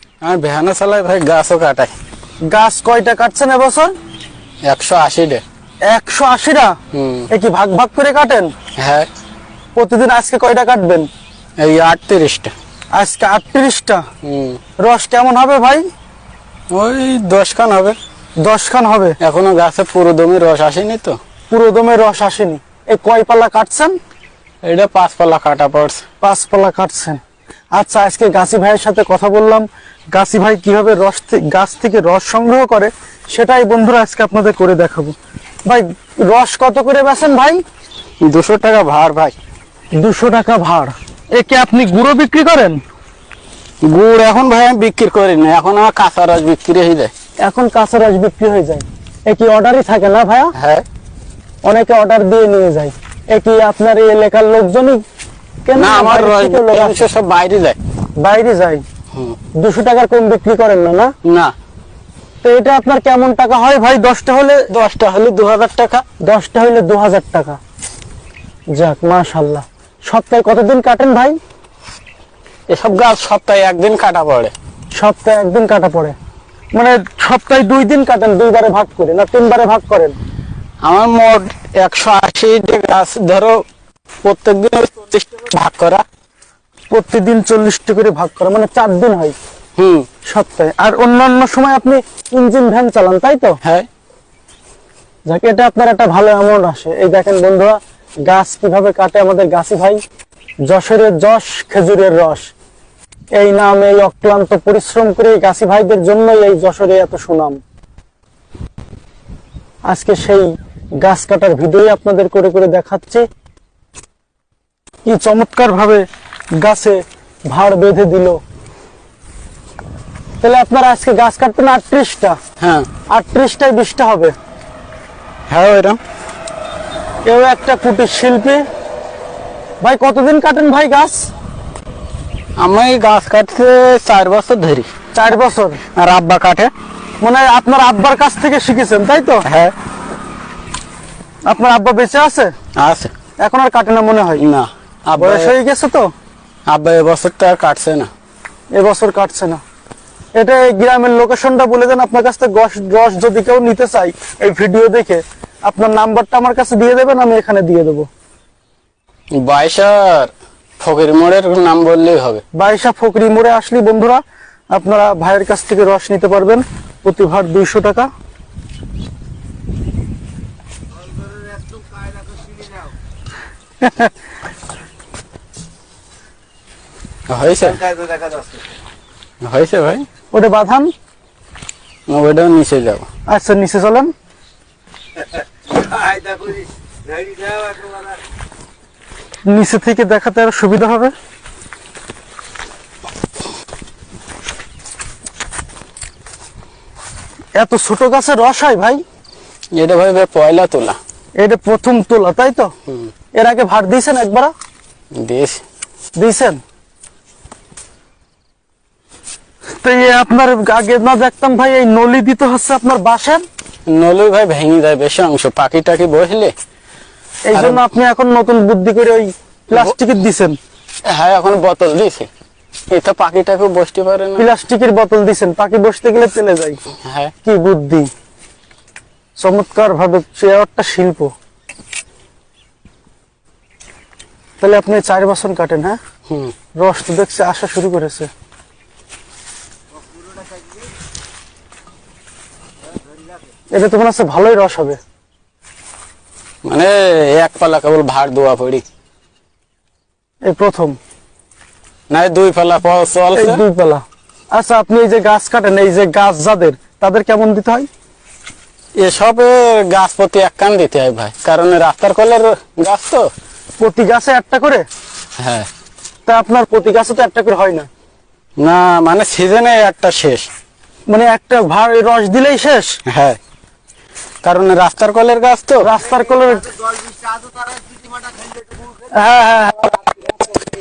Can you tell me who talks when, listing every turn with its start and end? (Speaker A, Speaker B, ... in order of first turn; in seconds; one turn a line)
Speaker A: 0.2-1.9
Speaker B: 2.5-3.9
Speaker A: 4.6-5.4
Speaker B: 5.9-6.8
Speaker A: 6.9-7.3
Speaker B: 7.3-8.5
Speaker A: 8.8-9.1
Speaker B: 9.7-11.1
Speaker A: 11.6-12.5
Speaker B: 12.9-14.0
Speaker A: 14.2-14.6
Speaker B: 14.8-15.8
Speaker A: 16.7-18.0
Speaker B: 18.4-19.2
Speaker A: 19.2-21.2
Speaker B: 21.5-23.9
Speaker A: 24.6-26.0
Speaker B: 26.2-27.2
Speaker B: 27.7-35.1
Speaker B: 35.6-37.6
Speaker A: 38.2-39.3
Speaker B: 40.0-42.8
Speaker A: 43.8-47.1
Speaker B: 47.4-50.5
Speaker A: 50.5-50.9
Speaker B: 51.6-55.0
Speaker B: 55.6-57.0
Speaker A: 55.8-57.8
Speaker B: 58.2-58.8
Speaker B: 59.6-61.1
Speaker A: 61.2-61.5
Speaker B: 62.4-64.7
Speaker A: 64.7-66.0
Speaker B: 66.2-67.6
Speaker B: 68.7-71.4
Speaker A: 72.7-74.5
Speaker B: 74.9-76.2
Speaker B: 76.7-80.2
Speaker A: 80.8-83.6
Speaker A: 84.2-86.0
Speaker B: 86.9-89.4
Speaker A: 89.8-90.1
Speaker B: 90.2-93.6
Speaker A: 93.6-93.9
Speaker B: 95.3-100.0
Speaker B: 100.7-102.5
Speaker B: 103.3-107.6
Speaker B: 109.9-113.2
Speaker B: 115.0-116.0
Speaker B: 116.6-118.4
Speaker B: 120.4-122.4
Speaker A: 122.6-122.9
Speaker B: 123.1-124.3
Speaker A: 125.5-126.0
Speaker B: 127.2-128.6
Speaker B: 129.8-131.2
Speaker A: 132.6-134.9
Speaker B: 135.1-135.8
Speaker A: 135.9-136.7
Speaker B: 137.2-139.5
Speaker A: 139.4-139.7
Speaker B: 141.5-142.5
Speaker A: 142.8-143.1
Speaker B: 143.4-144.4
Speaker A: 144.4-145.5
Speaker B: 145.2-146.1
Speaker A: 146.7-148.1
Speaker B: 148.7-149.6
Speaker B: 150.3-158.1
Speaker A: 159.3-162.4
Speaker B: 162.5-168.1
Speaker A: 177.3-178.1
Speaker A: 179.4-180.1
Speaker B: 180.3-180.9
Speaker A: 182.1-183.1
Speaker B: 183.3-184.1
Speaker B: 189.4-191.1
Speaker B: 197.6-199.0
Speaker A: 199.7-201.0
Speaker B: 201.4-202.7
Speaker B: 203.3-204.5
Speaker A: 205.1-205.6
Speaker B: 206.2-206.6
Speaker B: 209.8-213.4
Speaker A: 213.9-216.5
Speaker B: 217.5-220.6
Speaker A: 217.5-217.8
Speaker A: 221.0-222.3
Speaker A: 222.9-224.5
Speaker B: 224.4-226.8
Speaker A: 227.0-227.3
Speaker B: 227.4-228.1
Speaker B: 229.4-231.3
Speaker B: 234.6-236.0
Speaker A: 236.3-236.5
Speaker B: 236.8-238.3
Speaker B: 243.7-245.0
Speaker A: 246.6-248.8
Speaker B: 250.4-251.0
Speaker A: 252.1-253.6
Speaker B: 253.3-257.9
Speaker A: 259.0-263.3
Speaker B: 263.8-264.9
Speaker A: 265.4-265.7
Speaker B: 266.2-267.9
Speaker A: 268.6-270.5
Speaker B: 271.1-273.0
Speaker A: 273.1-273.4
Speaker A: 274.4-275.9
Speaker B: 275.8-276.9
Speaker B: 279.1-280.4